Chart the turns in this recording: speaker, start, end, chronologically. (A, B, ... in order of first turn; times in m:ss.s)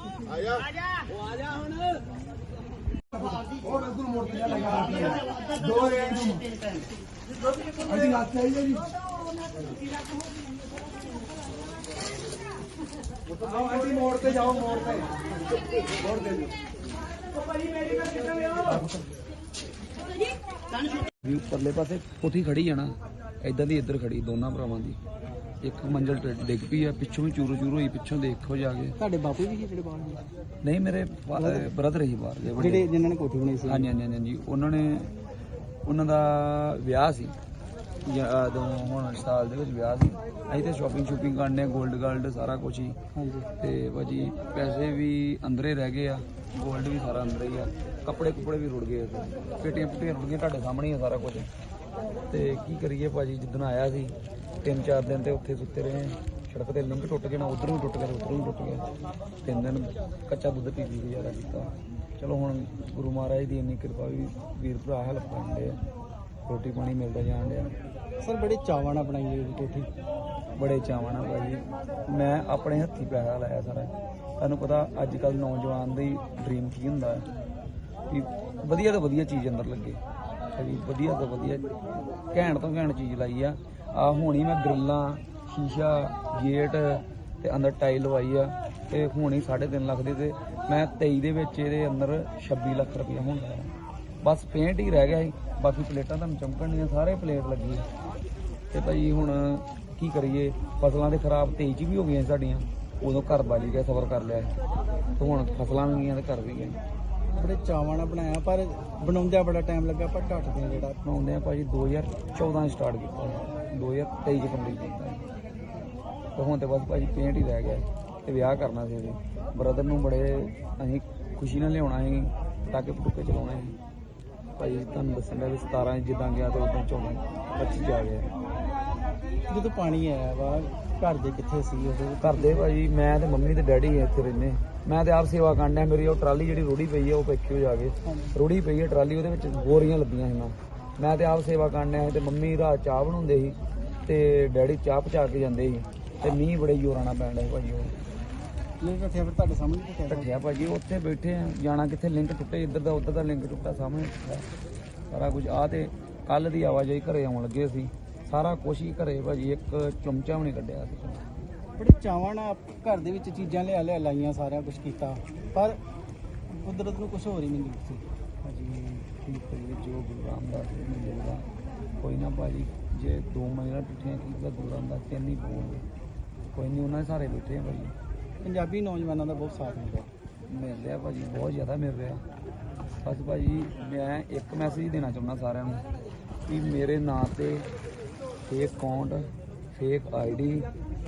0:21.2-0:25.0 A
0:25.6-0:29.0 A
0:29.0-0:30.2 B
0:30.6-0:32.9 A
0:31.4-0:31.7 B
0:32.6-0:33.9 B
0:33.7-0:35.1 A
0:35.9-0:37.4 A
0:38.1-0:43.0 A
0:43.2-0:43.5 B
0:43.6-0:51.5 A
0:52.3-0:58.9 A
0:59.4-1:05.8 A
1:06.5-1:07.7 A
1:08.2-1:09.9 B
1:10.6-1:17.3 A
1:18.1-1:20.0 A
1:20.5-1:21.7 A
1:22.3-1:33.7 A
1:34.2-1:37.9 A
1:38.7-1:44.5 A
1:45.2-1:46.8 A
1:47.3-1:51.0 B
1:51.0-1:55.2 A
1:56.4-2:03.8 A
2:04.6-2:08.3 A
2:09.5-2:12.7 B
2:12.2-2:27.9 A
2:28.8-2:30.3 B
2:30.1-2:34.5 A
2:35.1-2:41.3 A
2:41.8-2:45.8 B
2:46.5-2:48.0 B
2:48.4-2:51.5 A
2:52.0-2:55.9 A
2:56.5-2:58.0 A
2:58.4-3:00.1 B
3:00.5-3:02.2 A
3:03.0-3:05.8 A
3:06.5-3:07.7 A
3:08.5-3:10.7 A